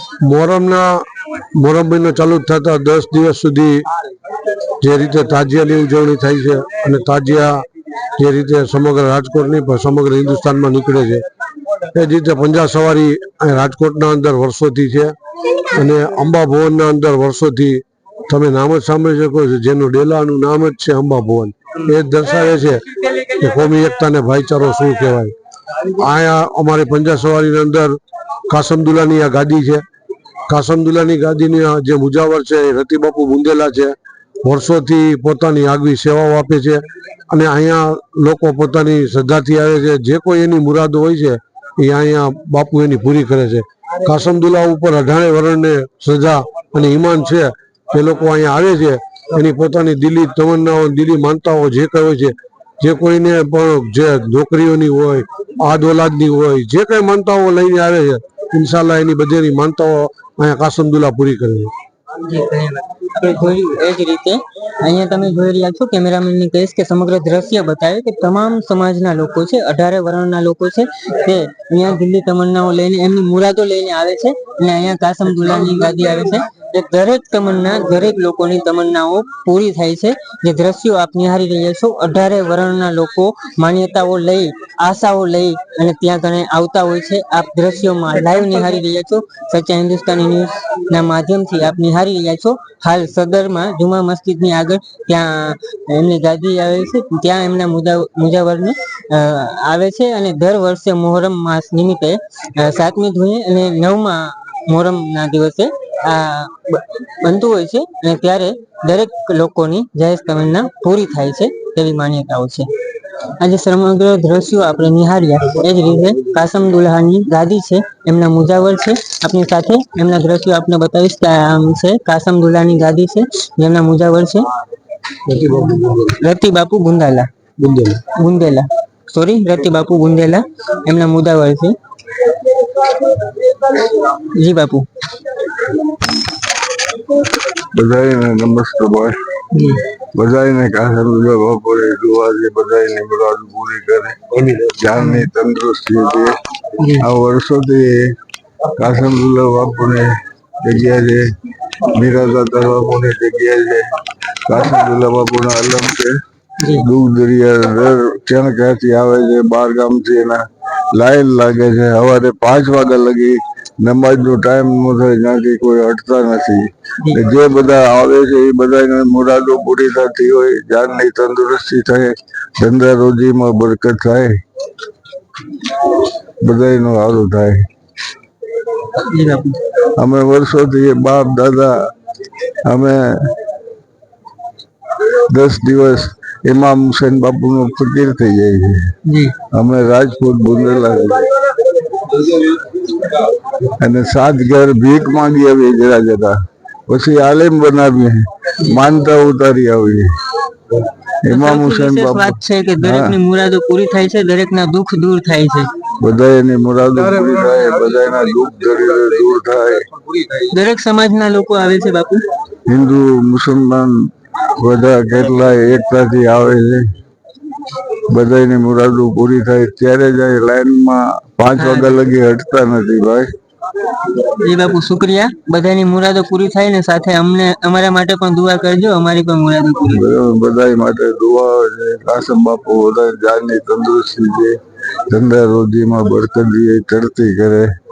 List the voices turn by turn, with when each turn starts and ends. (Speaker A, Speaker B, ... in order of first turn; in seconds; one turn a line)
Speaker A: 0.2-3.9
Speaker A: 4.8-7.7
Speaker A: 8.2-11.2
Speaker A: 11.9-15.2
Speaker A: 15.7-28.0
Speaker A: 28.5-29.9
Speaker A: 30.5-61.7
Speaker B: 62.2-112.7
Speaker B: 113.3-124.5
Speaker A: 125.3-126.0
Speaker B: 125.9-127.3
Speaker A: 127.6-128.0
Speaker B: 128.0-131.8
Speaker B: 133.6-134.9
Speaker C: 137.7-139.2
Speaker B: 139.5-139.8
Speaker C: 140.1-146.4
Speaker B: 145.0-145.3
Speaker B: 146.8-147.1
Speaker C: 147.0-148.1
Speaker C: 148.8-151.3
Speaker C: 151.8-153.9
Speaker C: 154.5-156.2
Speaker B: 156.6-156.9
Speaker C: 156.7-174.4
Speaker C: 176.4-177.7
Speaker B: 178.9-179.6
Speaker C: 180.0-181.8
Speaker C: 182.7-183.4
Speaker C: 185.3-188.9
Speaker B: 189.1-189.3
Speaker C: 189.5-191.3
Speaker C: 193.8-196.4
Speaker C: 196.9-200.2
Speaker C: 201.2-203.2
Speaker B: 201.3-205.7
Speaker C: 206.0-209.9
Speaker B: 210.5-212.2
Speaker C: 212.7-216.8
Speaker C: 218.1-223.3
Speaker B: 221.6-221.9
Speaker B: 224.1-230.2
Speaker C: 229.9-234.6
Speaker C: 235.1-237.7